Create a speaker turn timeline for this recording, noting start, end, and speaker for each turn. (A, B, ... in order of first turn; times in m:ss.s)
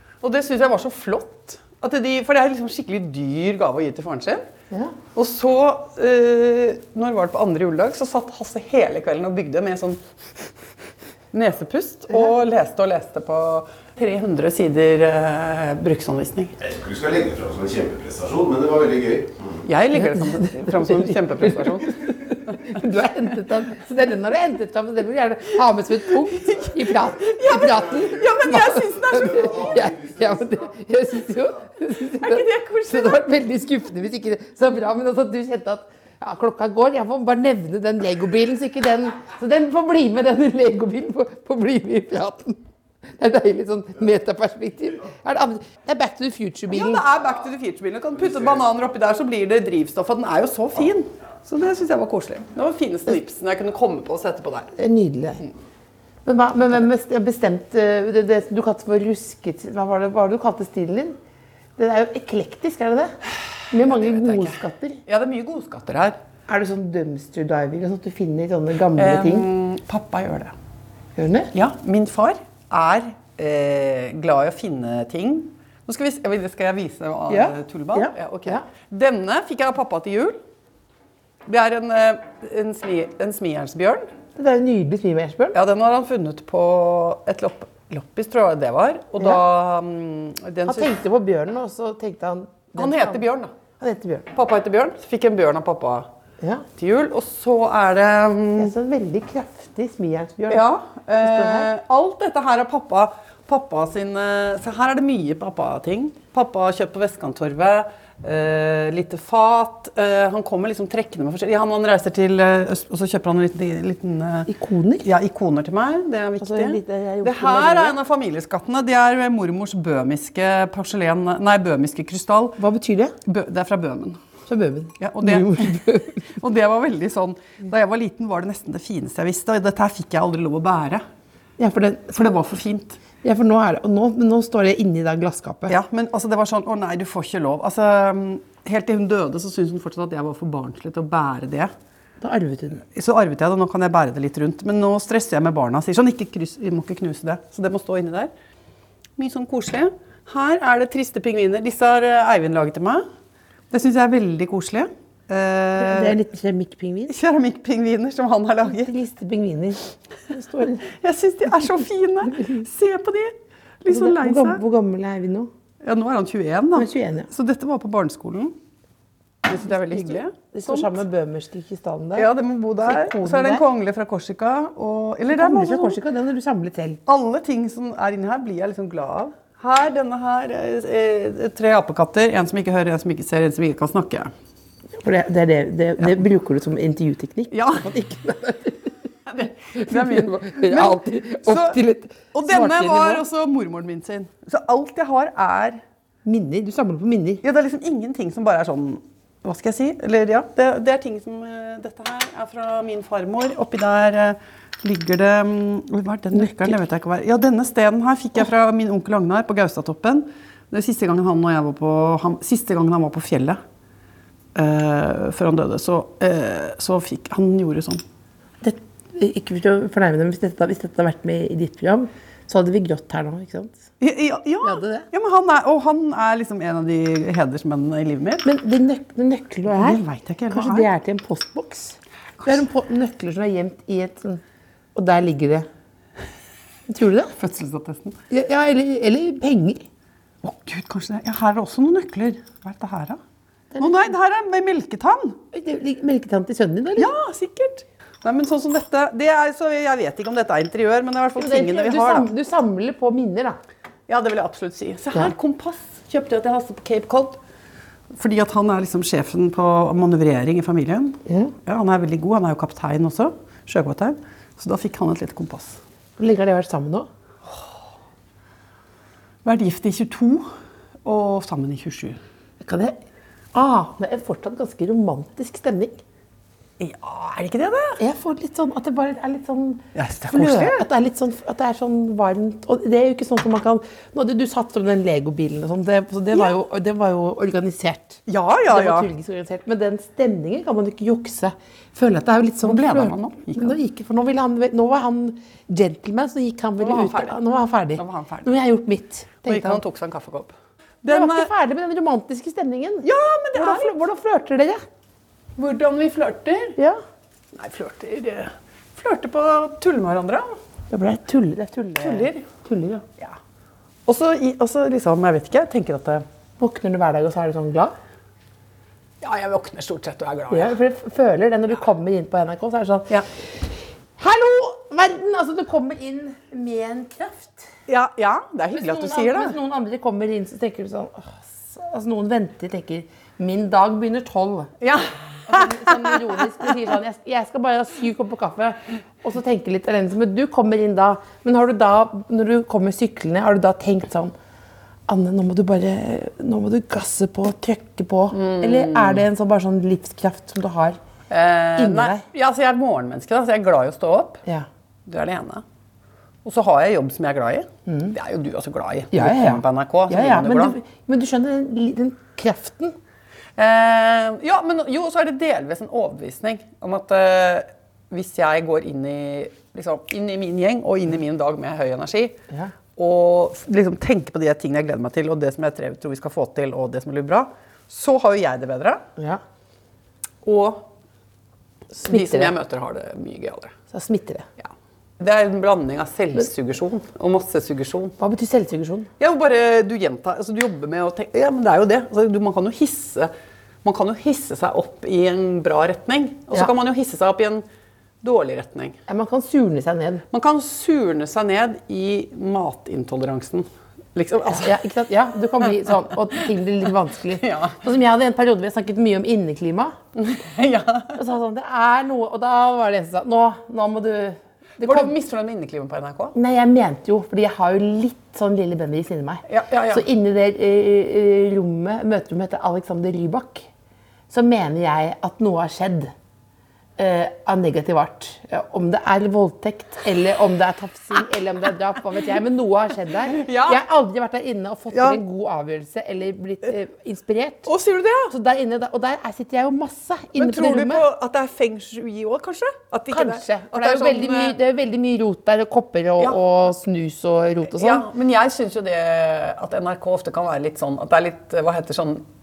0:00.2-0:04.5 A
0:05.1-0:10.4 A
0:11.3-0:16.6 A
0:16.6-0:19.6 B
0:19.6-0:22.8 A
0:19.9-0:42.6 C
0:26.3-0:29.8 A
0:29.1-0:30.9 B
0:32.2-0:33.2 A
0:43.2-0:47.1 C
0:46.7-0:54.7 A
0:54.8-0:55.4 C
0:56.2-1:01.2 C
1:01.8-1:03.2 C
1:03.7-1:05.0 C
1:03.8-1:06.2 A
1:06.5-1:09.5 C
1:09.0-1:10.5 A
1:11.2-1:11.5 C
1:11.5-1:20.4 A
1:17.3-1:18.6 C
1:21.4-1:24.1 A
1:24.4-1:25.6 C
1:25.5-1:30.9 A
1:30.6-1:33.2 C
1:32.8-1:33.5 A
1:33.8-1:34.3 C
1:34.3-1:36.1 A
1:36.8-1:38.7 A
1:38.6-1:40.6 C
1:40.5-1:54.5 A
1:41.2-1:41.7 C
1:54.5-1:55.0 C
1:55.0-2:02.6 A
1:56.4-1:57.9 C
2:02.6-2:03.1 C
2:03.2-2:04.2 A
2:04.5-2:06.2 C
2:05.0-2:11.0 A
2:11.6-2:12.2 C
2:12.1-2:13.0 A
2:13.2-2:15.7 C
2:15.7-2:21.7 A
2:22.2-2:22.8 C
2:22.8-2:28.3 A
2:29.2-2:33.0 A
2:33.7-2:36.2 A
2:35.8-2:37.1 C
2:37.1-2:38.9 A
2:38.7-2:40.9 C
2:40.9-2:44.6 A
2:43.9-2:45.5 C
2:45.8-2:48.6 A
2:46.7-2:47.3 C
2:49.4-2:51.0 A
2:49.9-2:52.3 C
2:52.2-2:56.0 A
2:52.8-2:53.6 C
2:55.3-2:57.0 C
2:57.0-3:04.3 A
3:05.0-3:08.9 C
3:07.5-3:07.9 A
3:09.2-3:11.8 A
3:09.8-3:13.2 C
3:12.3-3:15.8 A
3:16.2-3:17.4 C
3:17.4-3:33.6 A
3:26.4-3:26.7 C
3:34.5-3:38.0 A
3:38.6-3:43.8 C
3:44.0-3:48.4 A
3:44.6-3:45.1 C
3:48.4-3:54.4 C
3:49.7-3:50.9 A
3:54.9-3:55.6 C
3:56.9-3:57.3 C
3:57.4-3:58.2 A
3:58.3-3:59.8 C
4:00.4-4:03.2 A
4:03.7-4:04.1 C
4:03.8-4:05.4 A
4:05.5-4:07.1 C
4:07.0-4:12.3 A
4:11.4-4:13.6 C
4:14.1-4:17.4 A
4:18.1-4:25.8 A
4:21.2-4:21.5 C
4:26.2-4:27.1 C
4:29.4-4:30.5 A
4:31.0-4:32.2 A
4:32.6-4:33.0 C
4:33.5-4:36.0 C
4:36.8-4:38.0 A
4:38.0-4:59.8 C
4:39.9-4:40.8 A
4:48.3-4:49.1 A
4:52.6-4:53.8 A
4:56.8-4:57.4 A
4:58.0-4:58.5 A
4:59.4-5:01.5 A
5:01.1-5:04.8 C
5:03.0-5:03.9 A
5:05.6-5:06.8 A
5:07.5-5:10.6 A
5:10.9-5:13.0 C
5:12.0-5:12.4 A
5:14.0-5:16.2 A
5:16.6-5:17.9 C
5:19.2-5:20.8 A
5:20.5-5:23.6 C
5:24.2-5:27.7 C
5:27.9-5:29.5 A
5:28.7-5:34.7 C
5:34.8-5:36.7 A
5:35.5-5:44.3 C
5:45.1-5:51.0 C
5:48.3-5:49.2 A
5:51.3-5:54.4 A
5:51.8-5:52.2 C
5:55.0-5:55.6 A
5:56.4-6:00.8 A
5:57.9-5:58.1 C
5:59.1-6:03.0 C
6:03.6-6:12.4 A
6:12.9-6:19.0 A
6:20.4-6:20.9 A
6:22.0-6:22.5 C
6:22.0-6:23.7 A
6:23.9-6:24.4 C
6:24.6-6:28.1 A
6:28.2-6:29.1 C
6:29.2-6:33.3 A
6:33.8-6:37.6 A
6:38.2-6:39.0 A
6:39.1-6:40.2 C
6:40.3-6:44.8 A
6:44.5-6:50.0 C
6:47.4-6:47.8 A
6:50.2-6:51.2 A
6:51.2-6:55.1 C
6:54.8-6:56.3 A
6:56.3-7:03.7 C
6:59.5-7:00.0 A
7:04.3-7:06.1 C
7:07.0-7:17.7 C
7:13.3-7:13.8 A
7:14.9-7:15.2 A
7:17.6-7:18.3 A
7:18.3-7:21.0 C
7:20.4-7:24.6 A
7:23.1-7:28.0 C
7:27.7-7:32.2 A